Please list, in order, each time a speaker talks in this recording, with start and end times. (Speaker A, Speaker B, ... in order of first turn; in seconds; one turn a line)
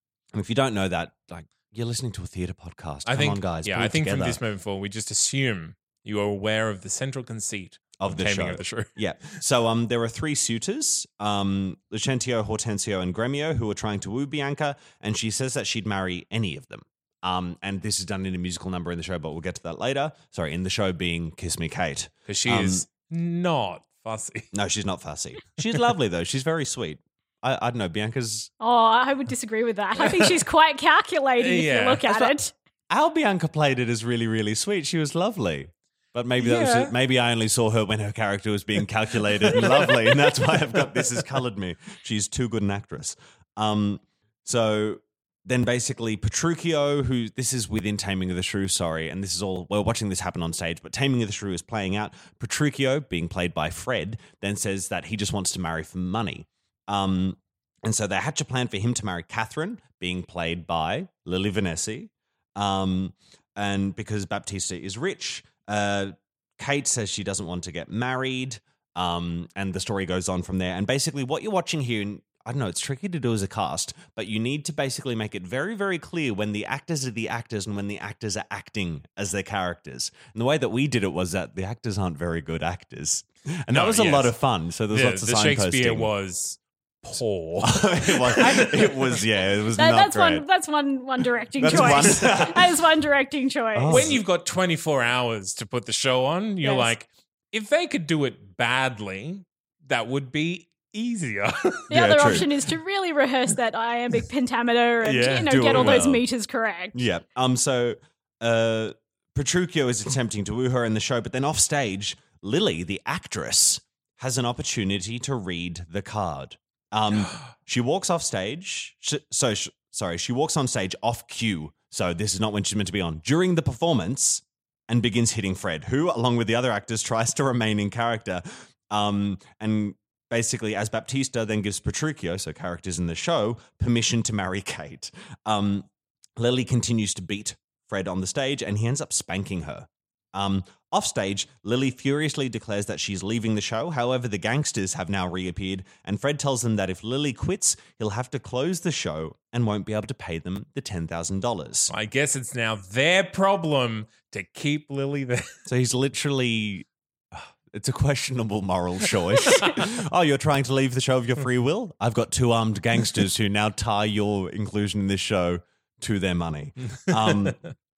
Speaker A: 0.3-4.4
Speaker B: 3.0-8.9
Speaker A: 8.0-22.8
Speaker B: 22.3-24.5
Speaker A: 24.5-28.5
Speaker C: 28.6-32.5
Speaker B: 31.4-32.1
Speaker A: 32.9-86.1
Speaker B: 36.4-36.9
Speaker B: 39.5-40.2
Speaker B: 83.7-84.3
Speaker B: 84.9-89.2
Speaker A: 87.6-90.4
Speaker C: 89.8-94.1
Speaker A: 91.6-92.7
Speaker B: 91.6-92.2
Speaker A: 93.7-94.2
Speaker B: 93.9-102.5
Speaker C: 96.6-96.9
Speaker A: 101.9-102.5
Speaker C: 101.9-107.0
Speaker B: 105.0-106.0
Speaker A: 105.4-106.2
Speaker A: 106.9-151.9
Speaker B: 151.9-155.5
Speaker A: 155.7-167.6